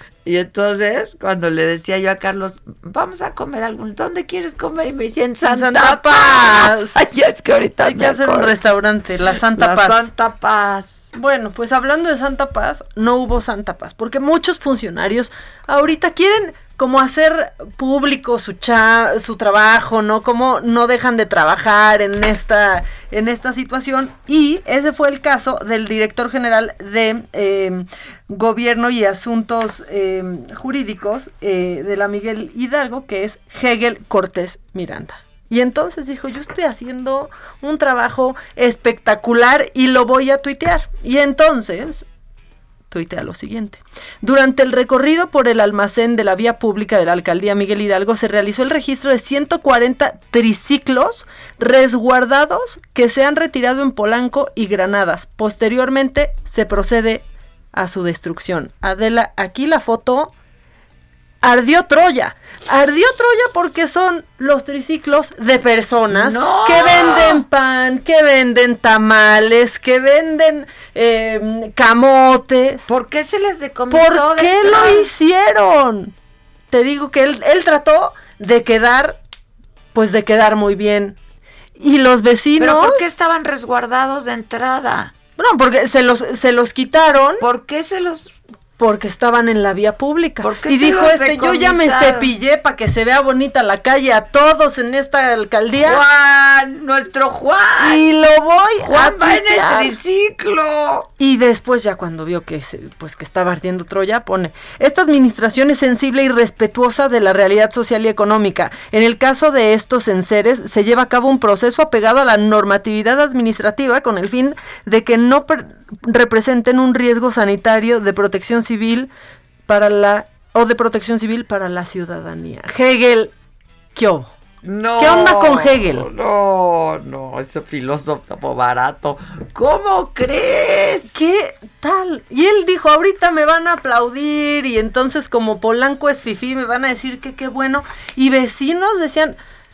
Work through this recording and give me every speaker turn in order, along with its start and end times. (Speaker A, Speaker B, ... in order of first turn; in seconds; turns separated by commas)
Speaker A: 0.2-8.5, Speaker B: 5.5-7.0, Speaker B: 7.8-10.1, Speaker A: 9.5-11.1, Speaker B: 11.2-42.0, Speaker B: 42.9-60.3, Speaker B: 61.4-72.8, Speaker A: 66.1-67.4, Speaker A: 72.9-75.1, Speaker B: 73.9-76.1, Speaker B: 76.7-79.2, Speaker B: 79.9-81.2, Speaker B: 81.8-83.0, Speaker A: 82.6-85.1, Speaker B: 85.4-87.5, Speaker A: 87.4-88.3, Speaker B: 88.8-96.0, Speaker A: 90.4-92.3, Speaker A: 95.8-98.1, Speaker B: 97.8-100.0, Speaker A: 98.8-101.1, Speaker B: 101.2-119.1, Speaker B: 119.7-123.3, Speaker B: 124.0-124.3, Speaker A: 124.6-131.1, Speaker B: 125.0-126.1, Speaker B: 131.1-139.4